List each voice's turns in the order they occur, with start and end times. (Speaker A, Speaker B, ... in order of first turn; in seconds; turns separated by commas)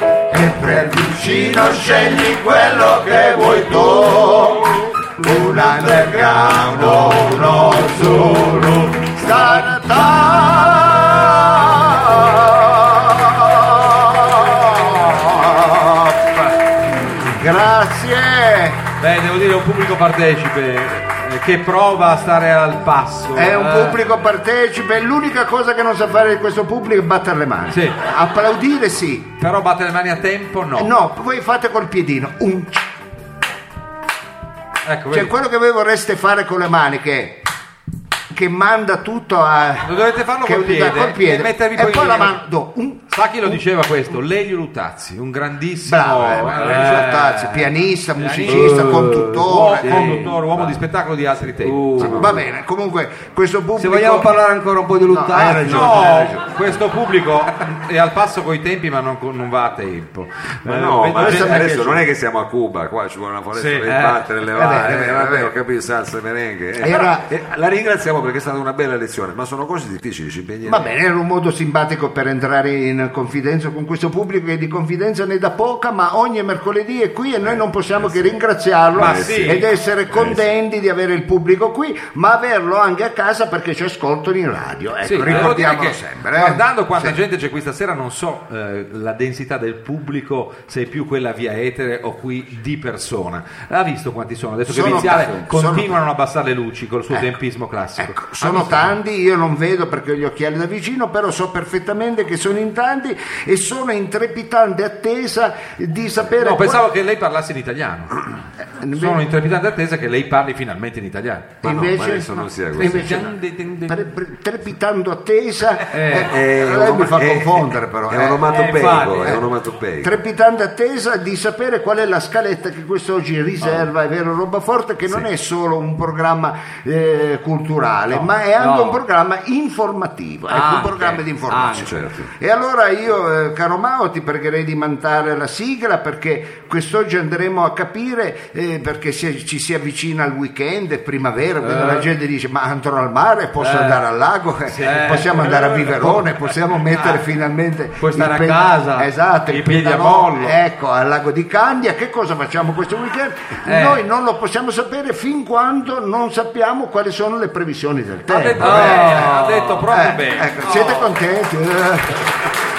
Speaker A: 0.3-16.3, Speaker A: 17.2-18.8, Speaker B: 19.0-24.0, Speaker A: 23.3-29.3, Speaker B: 27.7-28.0, Speaker B: 29.4-30.9, Speaker A: 30.8-32.8, Speaker B: 34.8-35.3, Speaker A: 35.1-37.4, Speaker A: 38.3-43.6, Speaker B: 39.8-42.4, Speaker B: 43.1-47.4, Speaker A: 45.9-50.2, Speaker C: 46.6-47.7, Speaker B: 48.2-52.3, Speaker C: 48.4-50.8, Speaker C: 51.5-52.3, Speaker A: 52.0-54.4, Speaker D: 52.0-52.4, Speaker C: 53.8-56.3, Speaker A: 55.0-56.4, Speaker B: 55.6-61.8, Speaker D: 60.6-70.9, Speaker A: 61.1-62.0, Speaker B: 63.5-63.9, Speaker C: 63.8-64.2, Speaker A: 64.5-65.5, Speaker A: 66.8-67.3, Speaker A: 70.6-87.2, Speaker D: 77.5-78.2, Speaker D: 78.9-80.4, Speaker B: 79.0-79.6, Speaker B: 85.0-98.9, Speaker A: 94.7-96.0, Speaker A: 97.1-97.3, Speaker A: 98.0-106.8, Speaker B: 106.4-108.1, Speaker A: 108.8-109.3, Speaker B: 108.9-111.6, Speaker D: 111.6-113.3, Speaker A: 111.6-118.6, Speaker B: 112.8-114.0, Speaker D: 116.2-120.1, Speaker C: 118.5-119.4, Speaker A: 120.0-159.3, Speaker C: 128.1-129.0, Speaker C: 130.5-132.0, Speaker D: 131.7-132.3, Speaker C: 141.6-142.0, Speaker C: 143.6-144.0, Speaker B: 144.7-145.9, Speaker C: 144.8-145.4, Speaker C: 148.0-149.1, Speaker B: 149.5-150.6, Speaker C: 153.7-154.0, Speaker B: 158.3-161.1, Speaker C: 158.6-159.9, Speaker A: 159.9-162.3